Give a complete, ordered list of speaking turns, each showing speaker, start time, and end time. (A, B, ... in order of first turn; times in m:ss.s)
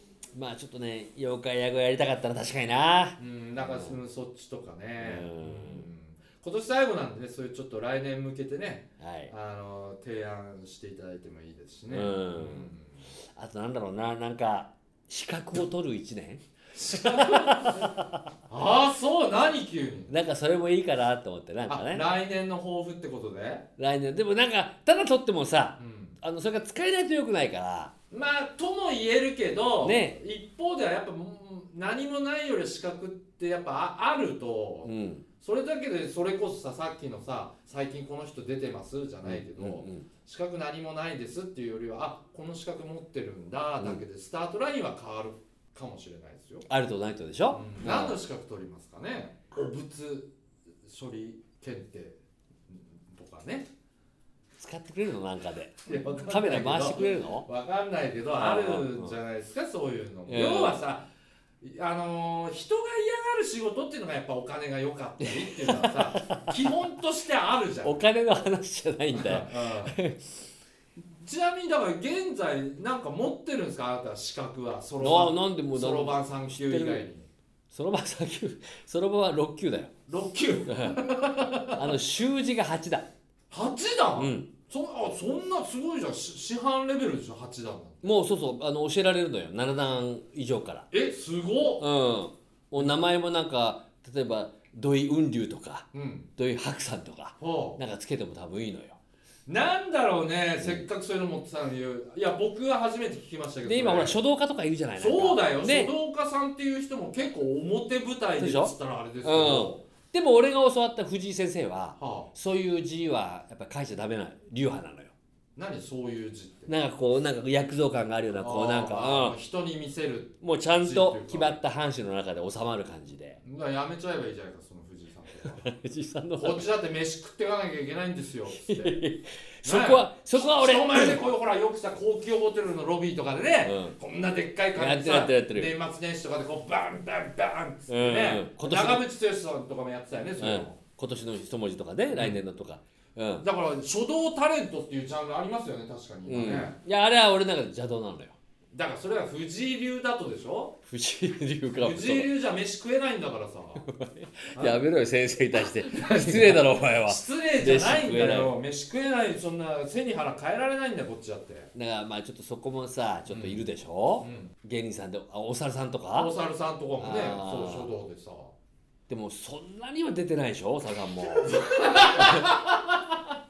0:00.3-0:03.2 A
0:03.2-0:13.1 B
0:03.7-0:04.0 A
0:05.0-0:05.9 A
0:09.0-0:09.3 A
0:11.9-0:12.7 A
0:13.4-0:18.2 A
0:16.7-0:20.1 B
0:20.1-0:22.0 A
0:21.7-0:23.7 B
0:23.8-0:27.9 A
0:25.8-0:26.2 B
0:28.1-0:46.7 B
0:29.8-0:30.2 A
0:34.8-0:35.2 A
0:39.2-0:40.0 A
0:46.7-0:48.2 A
0:47.5-0:50.3 B
0:50.8-0:52.2 B
0:52.7-0:53.7 B
0:54.6-0:57.5 A
0:55.9-1:01.1 B
0:58.4-0:59.2 A
1:00.3-1:00.8 A
1:01.6-1:08.0 B
1:05.2-1:06.6 A
1:07.8-1:10.3 A
1:09.1-1:10.0 B
1:11.0-1:17.3 B
1:15.0-1:17.0 A
1:17.7-1:19.9 A
1:20.1-1:22.0 B
1:20.7-1:21.1 A
1:21.7-1:23.1 A
1:23.5-1:28.1 B
1:24.2-1:24.5 A
1:28.0-1:30.9 A
1:30.9-1:31.9 B
1:31.8-1:39.0 A
1:35.9-1:36.3 B
1:37.4-1:37.8 B
1:39.5-1:44.2 B
1:40.6-1:40.9 A
1:43.6-1:45.9 A
1:45.0-1:49.8 B
1:48.4-1:55.1 A
1:52.0-1:52.3 B
1:55.6-1:56.7 B
1:56.7-1:59.4 A
1:58.3-2:01.6 B
2:00.4-2:03.4 A
2:03.4-2:05.7 B
2:05.6-2:06.7 A
2:06.4-2:09.0 B
2:08.6-2:11.2 A
2:09.6-2:20.8 B
2:13.6-2:14.0 A
2:14.8-2:15.7 A
2:17.9-2:19.0 A
2:20.4-2:23.4 A
2:22.1-2:22.4 B
2:23.4-2:26.8 B
2:26.3-2:28.4 A
2:28.7-2:30.8 B
2:30.9-2:32.3 A
2:31.8-2:33.9 B
2:33.9-2:38.5 A
2:34.5-2:34.8 B
2:35.5-2:41.7 B
2:41.8-2:46.3 A
2:43.3-2:43.6 B
2:44.2-2:44.5 B
2:46.1-2:48.5 B
2:47.0-2:47.9 A
2:49.1-2:51.6 A
2:51.2-2:53.4 B
2:52.1-2:52.5 A